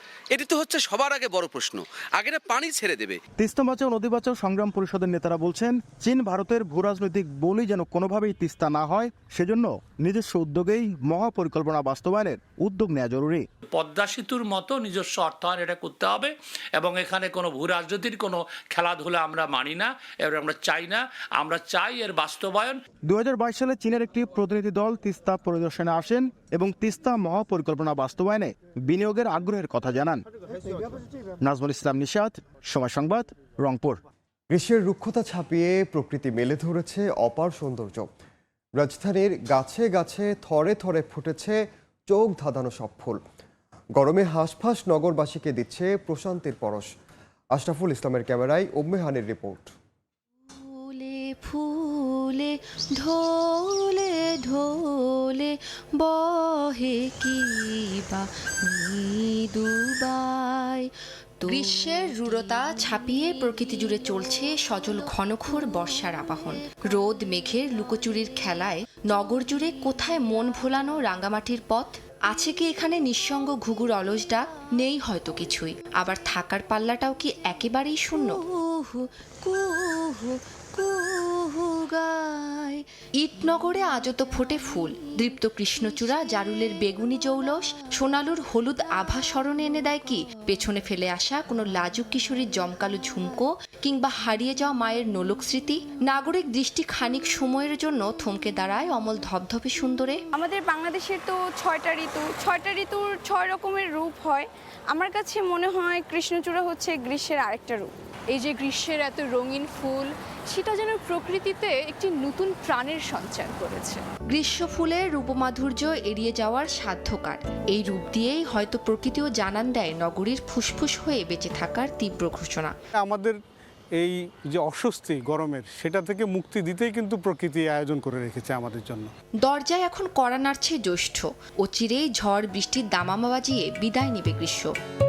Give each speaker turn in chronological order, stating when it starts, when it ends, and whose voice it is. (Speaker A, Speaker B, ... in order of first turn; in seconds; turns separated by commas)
Speaker A: 0.3-3.2, Speaker B: 3.4-13.4, Speaker C: 13.7-22.8, Speaker B: 23.1-30.2, Speaker B: 31.4-34.0, Speaker D: 34.5-38.1, Speaker D: 38.8-43.2, Speaker D: 43.9-46.9, Speaker D: 47.5-49.7, Speaker E: 50.5-100.2, Speaker F: 100.3-114.0, Speaker E: 114.3-122.7, Speaker G: 123.0-123.3, Speaker G: 124.0-129.1, Speaker E: 129.4-134.7